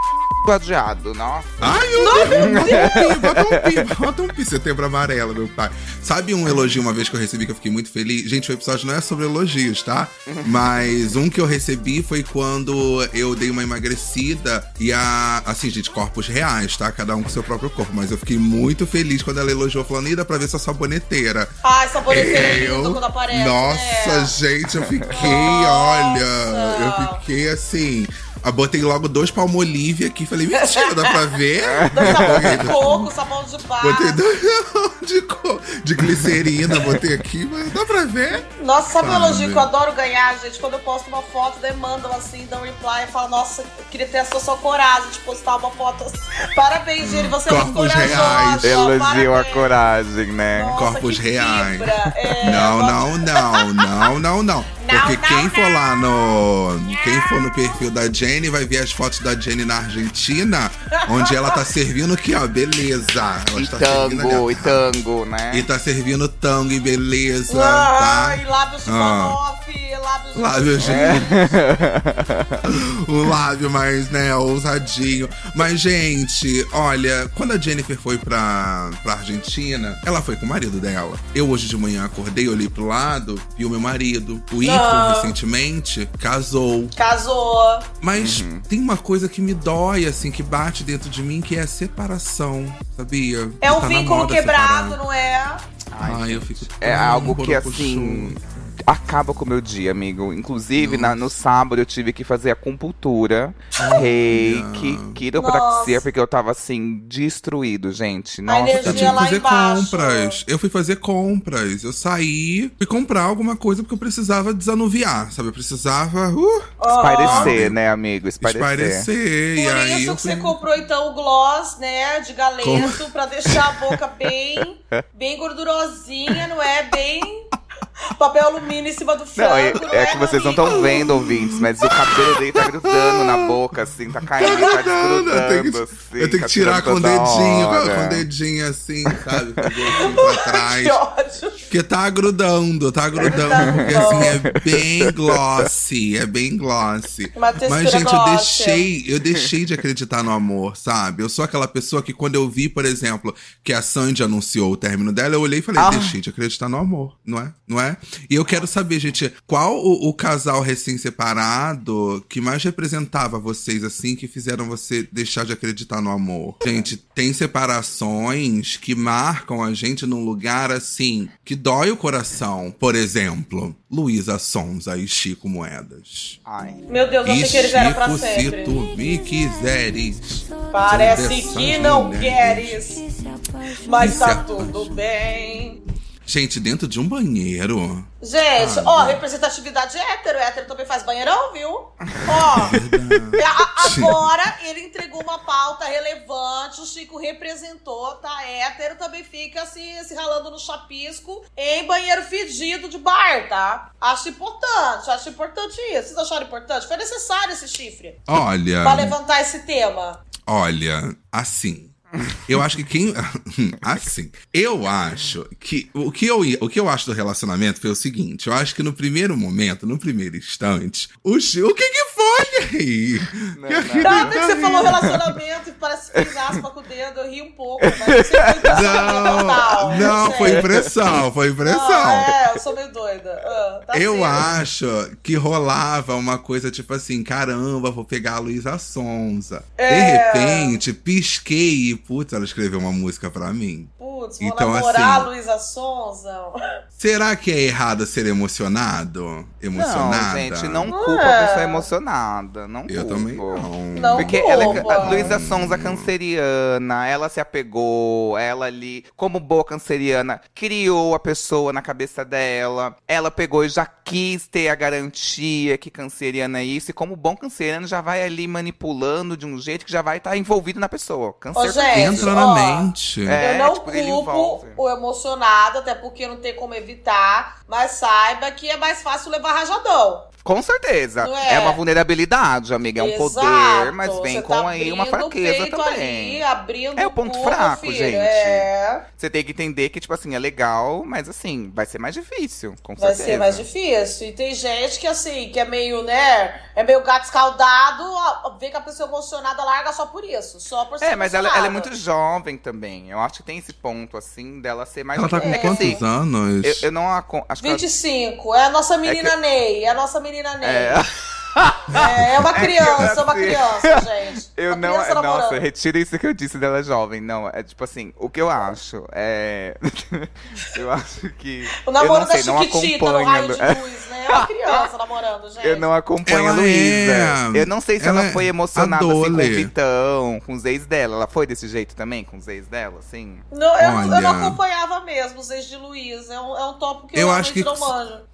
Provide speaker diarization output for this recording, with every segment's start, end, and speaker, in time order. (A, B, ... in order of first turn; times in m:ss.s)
0:00.4-0:03.9 A
0:01.6-0:21.5 B
0:02.0-0:03.1 C
0:10.3-0:10.7 A
0:21.6-0:24.4 C
0:22.1-0:33.1 B
0:25.0-0:25.3 A
0:25.1-0:27.2 C
0:30.6-0:31.3 C
0:31.7-0:32.8 A
0:31.8-0:34.2 C
0:33.8-0:38.5 B
0:36.7-0:37.1 A
0:38.6-0:49.7 C
0:39.0-0:39.7 B
0:47.0-0:48.9 B
0:48.6-0:50.8 A
0:50.5-0:53.9 C
0:50.8-1:04.8 B
0:52.2-0:52.6 A
0:54.8-0:56.0 C
0:56.9-0:57.7 C
1:01.0-1:01.7 C
1:03.6-1:05.7 A
1:05.5-1:09.4 B
1:07.5-1:11.4 C
1:10.3-1:11.4 B
1:10.8-1:12.6 A
1:12.6-1:26.9 B
1:24.6-1:25.4 C
1:27.0-1:27.9 C
1:28.0-1:35.0 B
1:28.2-1:28.7 A
1:33.6-1:35.6 C
1:35.9-1:49.2 A
1:36.0-1:38.4 B
1:40.8-1:41.3 B
1:43.8-1:45.2 B
1:45.4-1:46.0 C
1:48.5-1:50.4 C
1:48.8-1:56.7 B
1:56.8-1:57.6 C
1:56.9-1:59.1 A
1:57.2-1:57.8 B
1:58.4-2:00.6 B
1:59.6-2:07.5 C
2:02.6-2:03.0 B
2:08.1-2:11.1 C
2:09.4-2:18.2 A
2:10.6-2:13.6 B
2:14.4-2:21.0 B
2:19.1-2:20.0 A
2:19.9-2:21.6 C
2:21.7-2:56.4 B
2:23.2-2:24.4 C
2:23.3-2:25.7 A
2:27.4-2:28.9 C
2:35.8-2:36.2 A
2:46.6-2:46.9 A
2:56.5-2:56.9 A
2:56.9-2:58.8 C
2:57.2-3:03.0 B
3:00.7-3:03.0 C
3:03.8-3:05.8 C
3:04.0-3:05.0 B
3:06.3-3:09.2 B
3:08.2-3:12.8 C
3:12.6-3:14.3 B
3:13.4-3:28.2 C
3:28.3-3:29.2 B
3:28.8-3:30.2 C
3:30.4-3:45.1 B
3:43.6-3:45.2 A
3:44.0-3:50.7 C
3:46.2-3:46.6 A
3:47.8-3:49.5 A
3:48.7-3:52.3 B
3:50.0-3:50.9 A
3:51.6-3:54.4 C
3:53.9-4:05.3 B
3:59.8-4:00.8 C
4:04.0-4:06.6 C
4:07.0-4:10.9 B
4:09.7-4:32.3 A
4:10.9-4:11.9 C
4:12.9-4:16.1 B
4:13.9-4:15.3 C
4:31.6-4:40.3 C
4:31.9-4:33.4 B
4:33.2-4:34.8 A
4:40.4-4:46.4 A
4:41.2-4:41.8 C
4:43.0-4:49.0 C
4:47.0-4:53.7 A
4:53.0-5:01.9 C
5:01.0-5:06.0 A
5:05.2-5:06.9 B
5:05.4-5:06.0 C
5:06.6-5:07.9 A
5:07.6-5:11.0 C
5:09.1-5:09.3 A
5:10.6-5:24.9 A
5:11.9-5:13.1 B
5:11.9-5:15.6 C
5:21.8-5:25.9 C
5:25.6-5:33.4 A
5:26.3-5:29.7 B
5:33.5-5:38.2 C
5:33.8-5:34.6 B
5:37.2-5:37.9 B